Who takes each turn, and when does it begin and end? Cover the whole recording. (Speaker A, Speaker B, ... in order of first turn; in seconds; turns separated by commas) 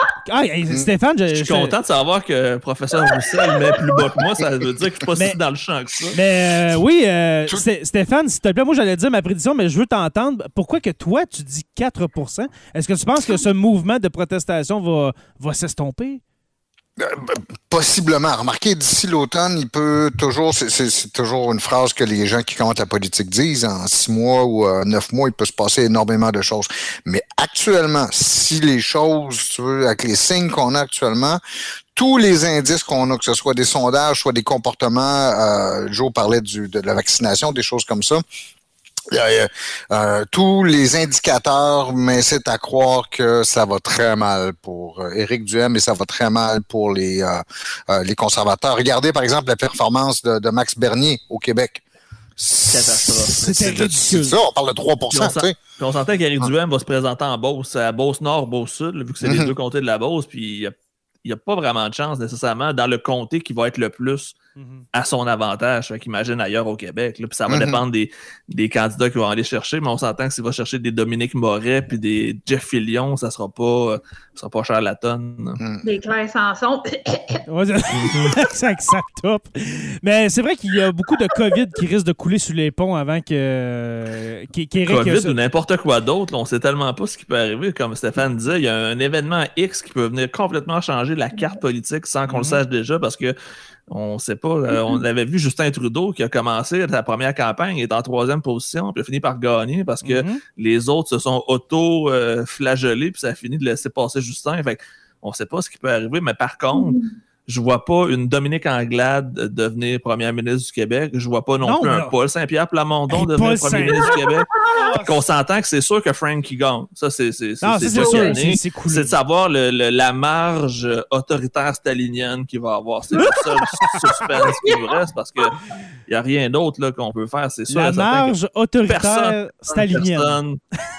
Speaker A: 0.2-1.7, Speaker B: 1.3-6.2, Speaker C: 3.0-4.1, Speaker A: 6.1-16.2, Speaker D: 17.0-31.4, Speaker D: 31.9-38.2, Speaker D: 39.1-51.8, Speaker D: 52.4-55.6, Speaker B: 52.7-53.8, Speaker A: 53.4-54.4, Speaker B: 55.1-64.4, Speaker D: 59.2-59.5, Speaker A: 64.6-64.8, Speaker B: 64.9-75.6, Speaker D: 67.5-67.8, Speaker C: 75.8-77.4, Speaker A: 77.5-85.3, Speaker B: 77.9-78.3, Speaker B: 84.9-93.3, Speaker A: 92.2-92.6, Speaker B: 93.9-128.3, Speaker C: 94.7-95.0, Speaker A: 100.0-100.4, Speaker C: 106.7-107.1, Speaker A: 111.6-112.1, Speaker A: 113.1-114.2, Speaker C: 113.8-114.9, Speaker A: 114.7-115.1, Speaker A: 117.6-119.2, Speaker C: 117.8-118.4, Speaker A: 123.2-124.0, Speaker C: 124.3-125.5, Speaker A: 127.7-130.4, Speaker B: 128.9-130.6